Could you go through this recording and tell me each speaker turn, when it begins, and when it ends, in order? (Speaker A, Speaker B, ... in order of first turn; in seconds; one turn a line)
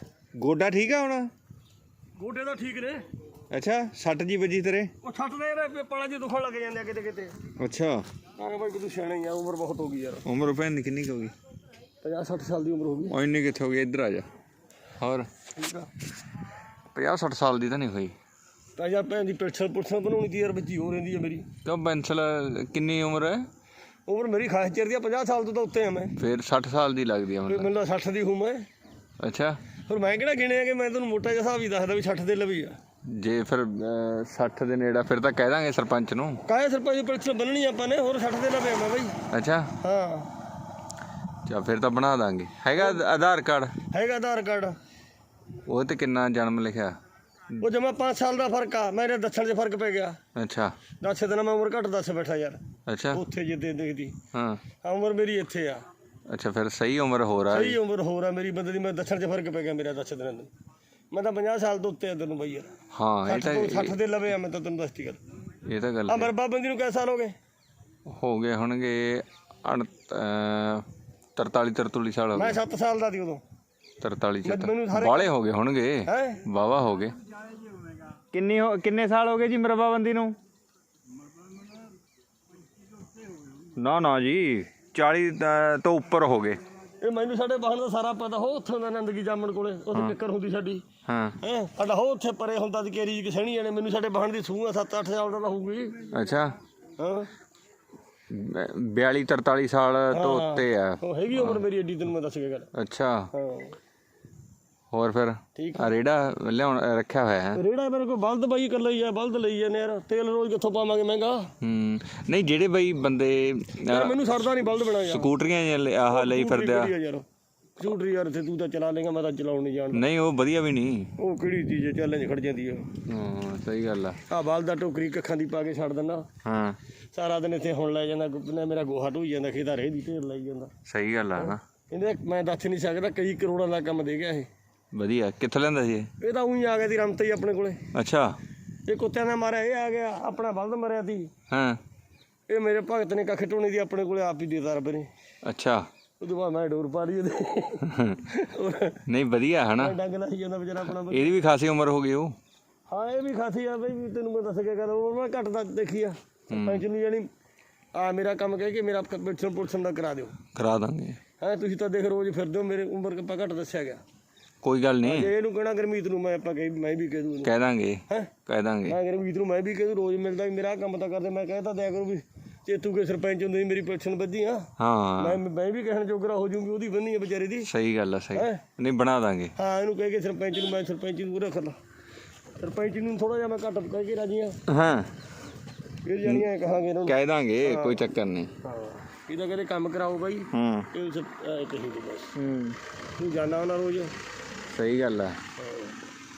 Speaker A: 0.4-1.3
Speaker B: 2.2-3.0
Speaker A: 3.5-4.9
Speaker B: 5.0-7.4
Speaker A: 7.6-8.1
Speaker B: 8.4-10.3
Speaker A: 10.2-11.3
Speaker B: 12.0-13.2
Speaker A: 13.1-14.3
Speaker A: 15.0-15.3
Speaker B: 15.5-15.9
Speaker A: 16.9-18.1
Speaker B: 18.8-21.5
Speaker A: 21.6-23.5
Speaker B: 24.1-26.2
Speaker A: 26.2-27.7
Speaker B: 27.5-28.6
Speaker A: 29.2-29.6
Speaker B: 29.9-32.8
Speaker A: 33.1-36.4
Speaker B: 36.5-39.2
Speaker A: 39.3-39.8
Speaker B: 39.8-40.3
Speaker A: 41.5-43.8
Speaker B: 43.9-44.8
Speaker A: 45.7-47.0
Speaker B: 47.6-50.2
Speaker A: 50.4-50.8
Speaker B: 51.0-52.6
Speaker A: 52.9-53.2
Speaker B: 53.1-54.2
Speaker A: 54.3-54.6
Speaker B: 54.8-55.8
Speaker A: 56.3-57.8
Speaker B: 57.5-60.5
Speaker B: 61.1-62.7
Speaker A: 62.9-64.0
Speaker B: 63.2-65.2
Speaker A: 65.6-66.3
Speaker B: 66.1-67.3
Speaker A: 68.1-70.8
Speaker A: 71.4-72.6
Speaker B: 72.3-73.4
Speaker A: 74.0-77.2
Speaker B: 74.4-75.3
Speaker B: 76.1-76.4
Speaker A: 78.3-80.4
Speaker A: 83.8-86.6
Speaker B: 87.0-90.9
Speaker A: 91.1-91.4
Speaker B: 91.4-96.0
Speaker A: 96.1-96.5
Speaker B: 97.0-97.3
Speaker A: 98.3-101.6
Speaker B: 100.1-102.7
Speaker A: 102.7-103.3
Speaker B: 103.3-103.8
Speaker A: 104.9-107.6
Speaker B: 105.5-105.9
Speaker B: 107.5-111.5
Speaker A: 111.6-116.9
Speaker B: 113.9-115.3
Speaker B: 116.1-117.2
Speaker B: 117.8-120.0
Speaker A: 119.9-121.1
Speaker B: 121.2-123.0
Speaker A: 123.1-124.2
Speaker B: 124.3-126.3
Speaker A: 126.4-126.8
Speaker B: 127.1-130.7
Speaker A: 130.9-131.6
Speaker B: 131.4-134.5
Speaker A: 134.9-136.1
Speaker B: 136.2-137.8
Speaker A: 137.9-138.4
Speaker B: 138.9-141.3
Speaker A: 141.5-141.8
Speaker B: 142.5-145.1
Speaker A: 145.4-145.9
Speaker B: 146.2-149.0
Speaker A: 147.8-148.2
Speaker A: 149.1-150.0
Speaker B: 149.8-151.4
Speaker A: 151.0-152.3
Speaker B: 152.9-157.3
Speaker A: 156.5-156.8
Speaker B: 157.9-160.4
Speaker A: 160.6-161.2
Speaker B: 161.4-164.0
Speaker A: 164.6-165.3
Speaker B: 165.0-167.5
Speaker A: 167.4-169.0
Speaker B: 168.9-177.7
Speaker A: 174.8-175.4
Speaker A: 177.6-179.5
Speaker B: 178.3-178.7
Speaker B: 179.6-181.8
Speaker B: 182.6-184.6
Speaker A: 184.7-185.1
Speaker B: 186.0-188.0
Speaker A: 187.1-188.5
Speaker B: 188.6-192.4
Speaker A: 190.5-190.9
Speaker A: 192.4-192.8
Speaker B: 193.2-194.1
Speaker A: 194.7-195.4
Speaker B: 195.6-196.0